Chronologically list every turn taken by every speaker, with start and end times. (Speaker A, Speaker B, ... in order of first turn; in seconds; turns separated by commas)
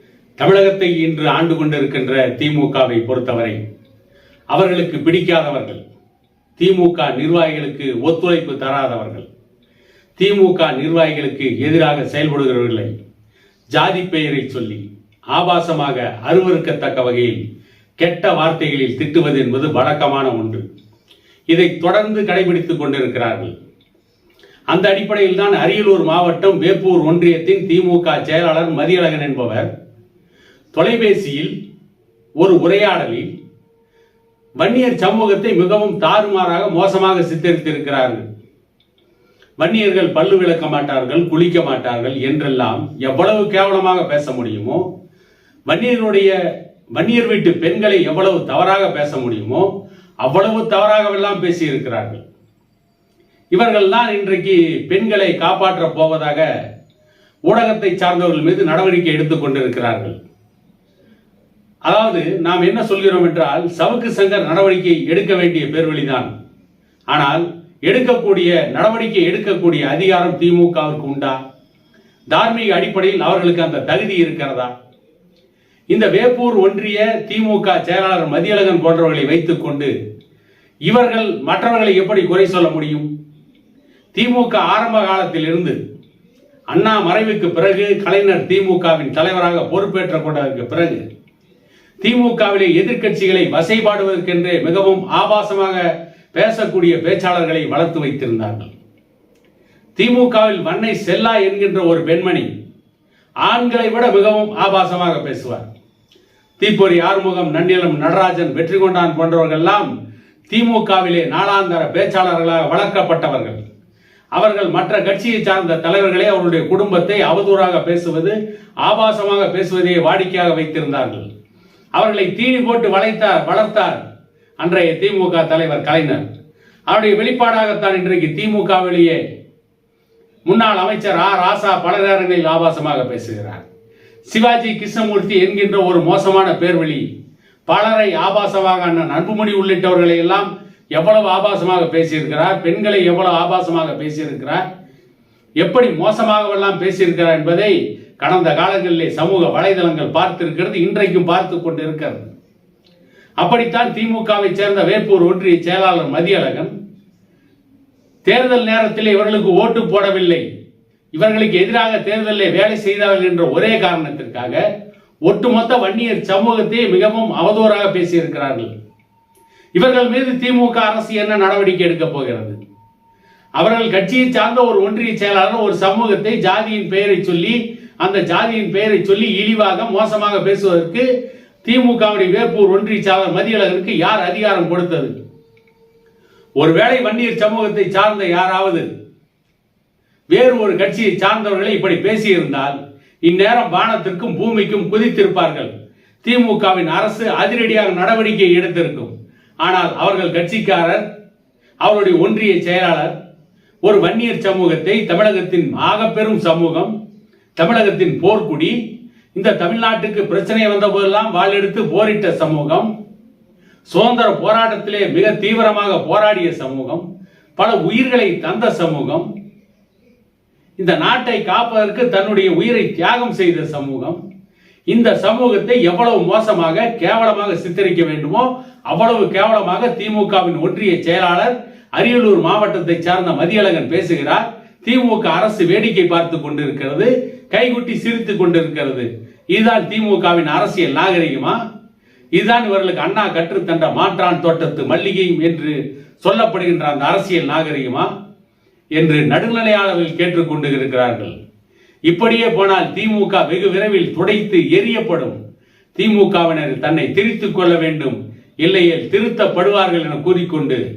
Speaker A: 0.4-3.6, Speaker A: 4.5-5.8, Speaker A: 6.6-9.3, Speaker A: 10.2-12.9, Speaker A: 13.7-14.8, Speaker A: 15.3-17.4, Speaker A: 18.0-20.6, Speaker A: 21.5-23.5, Speaker A: 24.7-29.7, Speaker A: 30.7-31.5, Speaker A: 32.4-33.3, Speaker A: 34.6-38.2, Speaker A: 39.6-44.8, Speaker A: 45.7-46.3, Speaker A: 47.0-49.7, Speaker A: 50.2-52.2, Speaker A: 53.5-56.5, Speaker A: 57.5-60.1, Speaker A: 61.9-66.3, Speaker A: 67.1-71.4, Speaker A: 72.3-74.7, Speaker A: 75.9-79.9, Speaker A: 80.9-83.1, Speaker A: 84.1-85.8, Speaker A: 86.7-91.0, Speaker A: 92.0-98.7, Speaker A: 100.0-102.5, Speaker A: 103.4-105.7, Speaker A: 106.6-109.9, Speaker A: 110.5-113.6, Speaker A: 114.3-121.2, Speaker A: 122.0-124.0, Speaker A: 124.6-126.2, Speaker A: 126.9-129.2, Speaker A: 130.5-133.6, Speaker A: 134.3-137.0, Speaker A: 137.7-144.6, Speaker A: 145.6-152.3, Speaker A: 153.4-156.7, Speaker A: 158.2-160.4, Speaker A: 161.1-164.6, Speaker A: 165.3-168.7, Speaker A: 169.8-172.6, Speaker A: 173.6-181.1, Speaker A: 181.7-185.1, Speaker A: 186.6-188.9, Speaker A: 190.3-195.7, Speaker A: 196.2-199.1, Speaker A: 199.6-201.0, Speaker A: 201.8-203.1, Speaker A: 203.8-206.9, Speaker A: 207.6-208.7, Speaker A: 209.3-212.9, Speaker A: 213.9-217.0, Speaker A: 217.6-219.3, Speaker A: 220.8-224.2, Speaker A: 224.9-241.6, Speaker A: 242.3-248.1, Speaker A: 248.9-251.3, Speaker A: 252.1-255.4, Speaker A: 255.9-260.8